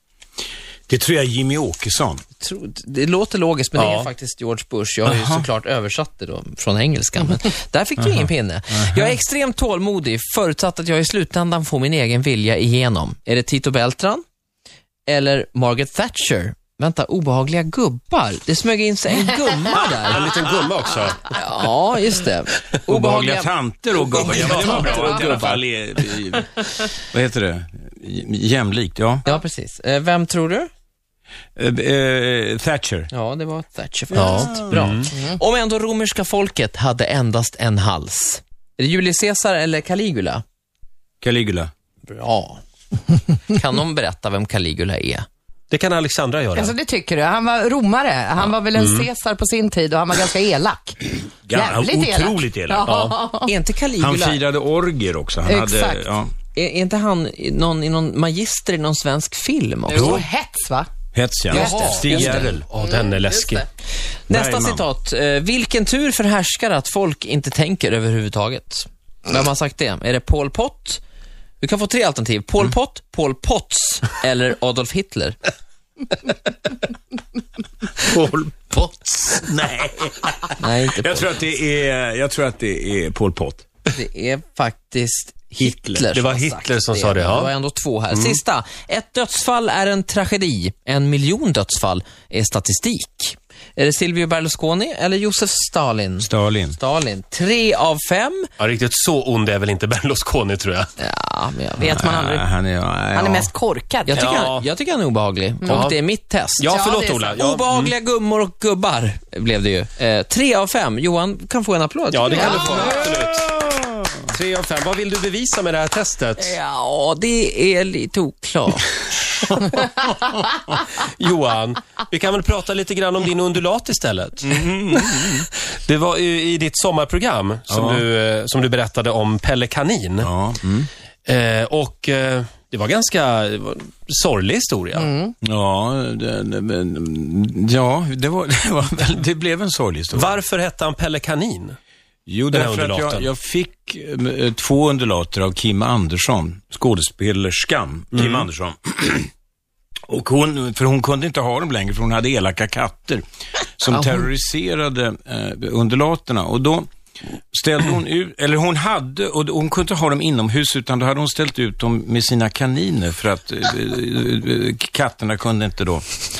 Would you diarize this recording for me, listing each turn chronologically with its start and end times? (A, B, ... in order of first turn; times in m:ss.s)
0:00.9-0:02.2 A
0:02.4-0:14.2 B
0:03.8-0:04.1 C
0:05.0-0:05.4 A
0:08.0-0:09.2 A
0:15.1-0:20.3 B
0:20.1-0:21.4 C
0:21.3-0:25.7 B
0:22.9-0:29.2 A
0:24.2-0:25.1 C
0:29.2-0:30.7 B
0:31.6-0:33.1 A
0:33.1-0:40.4 B
0:34.1-0:35.0 A
0:34.1-0:35.1 C
0:41.2-0:41.7 A
0:42.1-0:42.6 B
0:43.5-0:45.3 B
0:45.7-0:46.7 C
0:46.6-0:53.5 D
0:48.8-0:49.1 C
0:51.4-0:52.9 A
0:52.8-0:53.2 C
0:53.4-0:54.4 B
0:54.0-0:56.3 A
0:55.5-0:56.0 D
0:56.6-1:00.2 B
0:59.9-1:00.9 D
0:59.9-1:00.3 A
1:01.1-1:02.7 A
1:01.5-1:02.6 B
1:01.5-1:03.7 C
1:02.8-1:03.6 D
1:04.3-1:11.0 B
1:04.3-1:04.9 A
1:11.6-1:15.4 B
1:18.0-1:23.6 A
1:20.6-1:21.4 B
1:23.9-1:38.5 B
1:25.6-1:26.1 A
1:26.1-1:27.5 C
1:28.1-1:28.4 C
1:36.2-1:36.8 A
1:38.6-1:40.9 C
1:41.0-1:42.0 B
1:41.8-1:43.5 A
1:41.8-1:42.4 D
1:43.1-1:44.4 D
1:44.0-1:53.0 B
1:44.2-1:44.7 C
1:45.7-1:46.0 C
1:46.6-1:47.9 C
1:46.7-1:47.3 D
1:52.1-1:53.5 C
1:52.3-1:52.8 D
1:52.6-1:54.2 A
1:54.3-1:56.6 C
1:56.4-1:58.9 B
1:59.5-2:00.4 A
2:01.0-2:10.3 C
2:04.4-2:05.5 A
2:07.7-2:08.0 A
2:10.2-2:10.9 A
2:11.3-2:15.1 C
2:15.0-2:15.3 D
2:15.4-2:20.4 A
2:20.1-2:21.8 C
2:22.3-2:29.3 A
2:22.5-2:23.3 C
2:28.1-2:28.4 C
2:30.1-2:33.2 A
2:33.8-2:36.9 A
2:37.5-2:46.1 A